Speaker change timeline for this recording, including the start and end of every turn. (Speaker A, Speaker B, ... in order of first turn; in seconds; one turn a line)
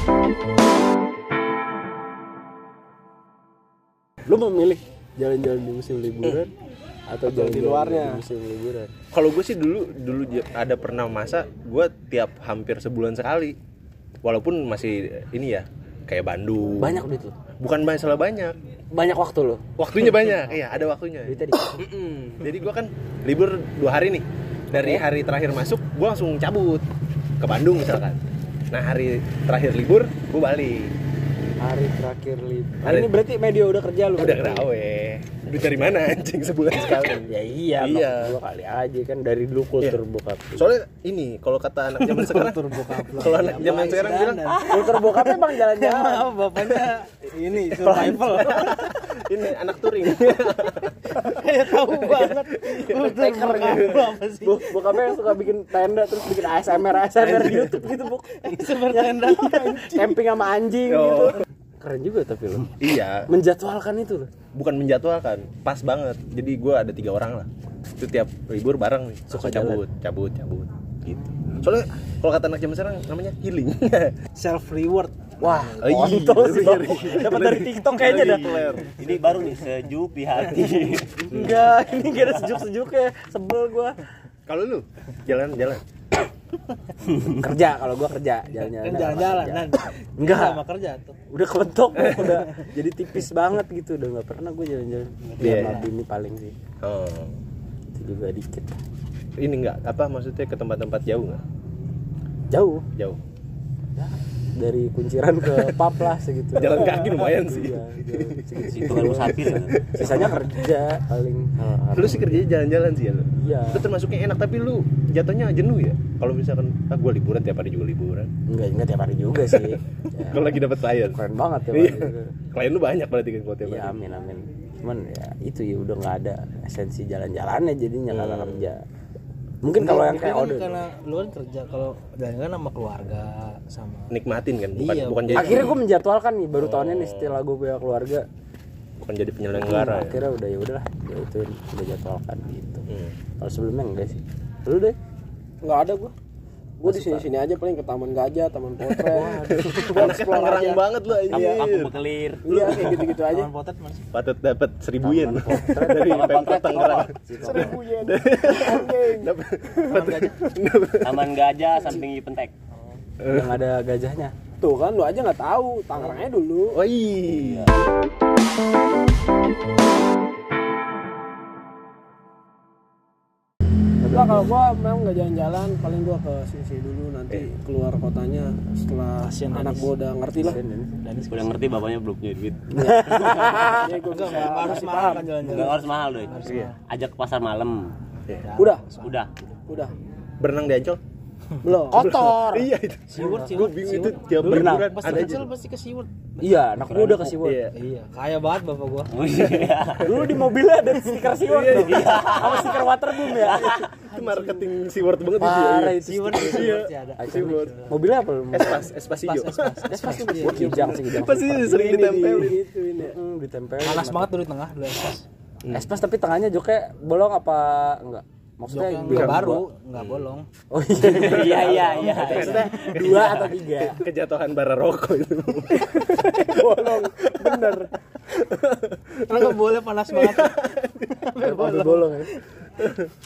Speaker A: 4.2-6.5
Speaker A: 7.1-8.9
Speaker B: 7.2-8.2
Speaker C: 9.1-13.6
Speaker C: 14.2-17.0
Speaker A: 16.8-17.3
Speaker C: 17.6-18.6
Speaker A: 18.9-19.7
Speaker C: 19.8-26.8
Speaker A: 20.5-21.9
Speaker A: 24.7-25.0
Speaker C: 27.4-28.2
Speaker C: 28.7-30.9
Speaker A: 31.6-34.7
Speaker C: 32.8-33.1
Speaker C: 34.2-38.4
Speaker A: 37.0-40.7
Speaker C: 40.5-45.0
Speaker D: 42.0-48.6
Speaker A: 44.7-46.4
Speaker E: 47.8-48.8
Speaker A: 47.9-48.2
Speaker C: 47.9-54.0
Speaker D: 51.2-55.1
Speaker A: 52.9-62.7
Speaker D: 58.4-60.2
Speaker C: 60.9-61.4
Speaker C: 62.8-63.3
Speaker A: 63.3-64.3
Speaker C: 64.5-74.2
Speaker A: 69.3-69.8
Speaker D: 74.3-76.4
Speaker A: 75.4-78.7
Speaker C: 75.8-79.0
Speaker E: 79.0-81.3
Speaker A: 81.3-84.0
Speaker C: 81.3-81.6
Speaker C: 84.5-85.8
Speaker A: 87.3-90.6
Speaker D: 88.5-91.2
Speaker A: 91.3-96.5
Speaker C: 91.9-92.4
Speaker D: 95.3-95.9
Speaker C: 95.4-95.8
Speaker C: 96.8-97.4
Speaker A: 97.9-98.8
Speaker C: 99.4-101.4
Speaker A: 102.5-102.8
Speaker C: 103.0-103.2
Speaker A: 104.0-112.5
Speaker C: 106.5-109.2
Speaker E: 108.7-110.4
Speaker C: 109.7-110.3
Speaker C: 111.9-118.3
Speaker A: 113.4-113.8
Speaker A: 118.5-120.6
Speaker C: 119.5-121.2
Speaker A: 121.1-122.3
Speaker C: 121.7-124.0
Speaker A: 123.6-128.8
Speaker C: 128.1-128.7
Speaker A: 129.6-130.9
Speaker D: 129.7-134.1
Speaker C: 134.1-135.8
Speaker D: 134.7-135.7
Speaker A: 135.3-138.2
Speaker C: 136.6-137.4
Speaker C: 139.0-140.2
Speaker A: 139.5-142.8
Speaker C: 142.9-143.1
Speaker A: 143.4-144.9
Speaker B: 145.6-146.1
Speaker B: 146.8-151.6
Speaker A: 146.8-147.3
Speaker C: 148.9-151.9
Speaker A: 149.1-150.2
Speaker E: 151.3-152.4
Speaker B: 152.4-153.5
Speaker C: 152.5-153.2
Speaker D: 153.2-154.1
Speaker C: 154.1-161.3
Speaker A: 155.0-156.5
Speaker E: 155.8-157.1
Speaker A: 157.2-157.8
Speaker B: 157.3-159.3
Speaker D: 159.8-160.4
Speaker E: 161.0-162.5
Speaker D: 162.8-163.0
Speaker C: 163.2-163.5
Speaker A: 163.3-164.3
Speaker B: 164.6-166.8
Speaker C: 166.7-167.7
Speaker E: 167.3-167.8
Speaker A: 174.0-174.5
Speaker B: 174.1-180.6
Speaker D: 179.2-179.9
Speaker A: 180.4-181.0
Speaker D: 181.0-181.7
Speaker E: 181.3-183.8
Speaker A: 182.7-184.0
Speaker B: 183.4-185.4
Speaker D: 184.0-186.8
Speaker A: 184.9-185.3
Speaker E: 185.4-187.9
Speaker C: 186.4-186.7
Speaker D: 188.4-189.1
Speaker B: 188.6-188.8
Speaker E: 189.0-189.3
Speaker B: 189.7-189.9
Speaker C: 190.4-191.0
Speaker B: 191.6-192.1
Speaker C: 191.9-195.5
Speaker A: 191.9-192.4
Speaker E: 192.2-192.4
Speaker D: 193.1-196.5
Speaker A: 193.2-194.9
Speaker A: 196.4-197.6
Speaker C: 196.8-197.7
Speaker D: 197.7-199.1
Speaker E: 199.1-200.2
Speaker A: 200.0-203.7
Speaker C: 201.4-207.7
Speaker E: 201.7-203.9
Speaker D: 204.1-204.7
Speaker A: 205.4-208.9
Speaker D: 205.8-208.0
Speaker C: 208.5-212.6
Speaker D: 209.2-210.8
Speaker A: 209.9-214.3
Speaker B: 210.0-211.0
Speaker B: 211.6-213.2
Speaker D: 213.8-215.2
Speaker A: 215.7-219.6
Speaker D: 218.7-220.5
Speaker C: 219.1-220.3
Speaker A: 220.7-224.0
Speaker E: 221.0-223.2
Speaker C: 221.2-231.8
Speaker D: 222.0-222.9
Speaker B: 226.3-227.9
Speaker D: 229.2-232.4
Speaker A: 231.4-232.3
Speaker C: 232.8-233.1